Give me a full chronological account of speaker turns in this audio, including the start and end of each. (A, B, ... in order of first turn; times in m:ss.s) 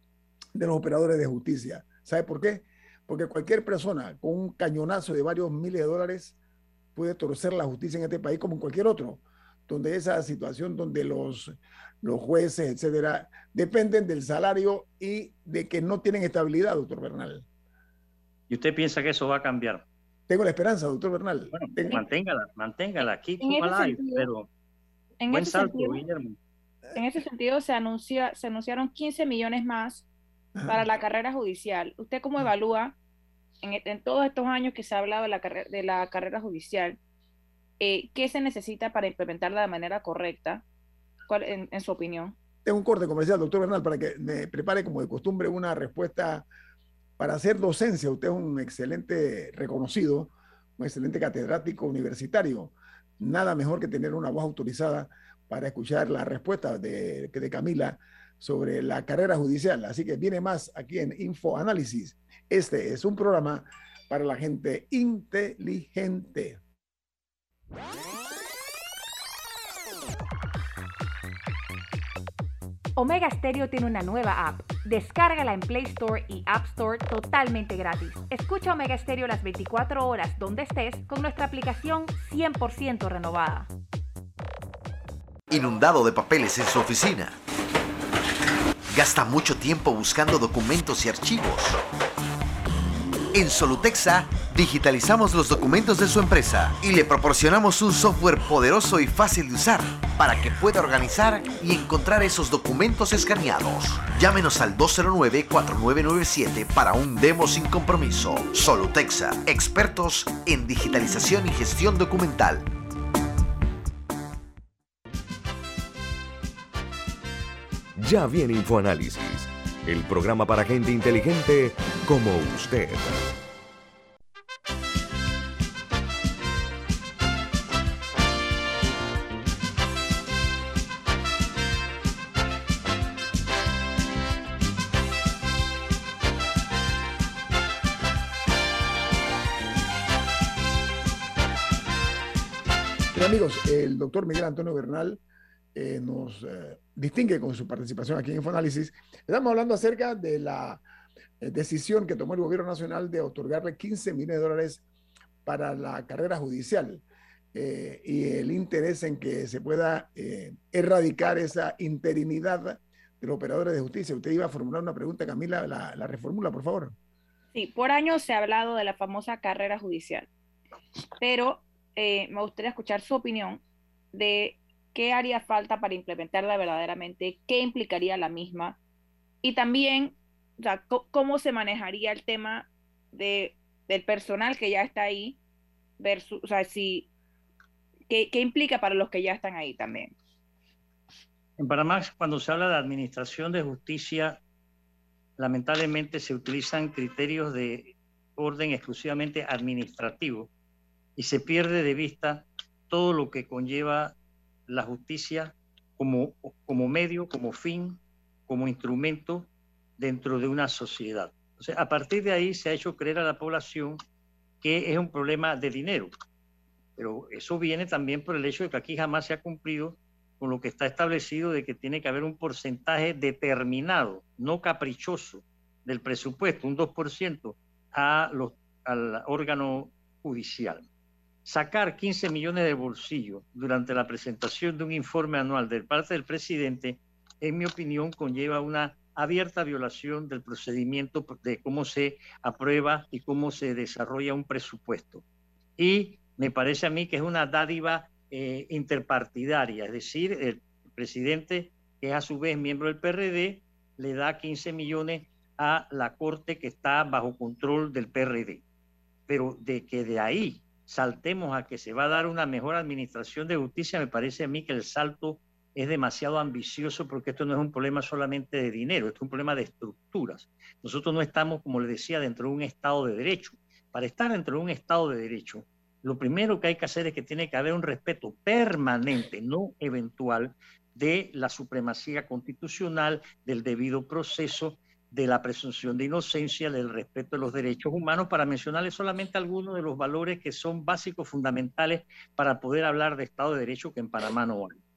0:00.5-0:06.4 A
0:06.9-0:17.4 A
0:18.5-0:19.8 B
0:20.3-0:22.0 A
0:21.5-0:24.5 B
0:23.4-0:24.3 C
0:25.2-0:26.0 C
0:25.3-0:26.4 B
0:26.9-0:30.0 C
0:30.6-0:30.8 A
0:30.6-0:33.0 C
0:33.6-0:37.0 C
0:37.8-0:40.6 C
0:41.3-0:42.3 C
0:42.6-0:46.4 A
0:47.2-1:06.6 A
1:13.0-1:23.7 D
1:25.5-1:27.4 E
1:28.9-1:31.8 E
1:33.3-1:52.7 E
1:58.0-2:03.2 F
2:23.1-2:25.2 A
2:25.7-2:30.8 A
2:31.4-2:34.8 A
2:35.4-2:37.0 A
2:37.5-2:46.9 A
2:47.5-2:50.3 C
2:51.2-2:53.6 C
2:54.1-2:58.8 C
2:59.4-3:05.4 C
3:06.0-3:07.1 C
3:08.1-3:10.1 C
3:11.6-3:14.4 B
3:15.4-3:20.5 B
3:21.2-3:24.1 B
3:24.7-3:29.5 B
3:30.0-3:34.0 B
3:34.6-3:36.1 B
3:37.0-3:50.8 B
3:51.4-4:05.2 B
4:05.8-4:18.6 B
4:19.3-4:54.8 B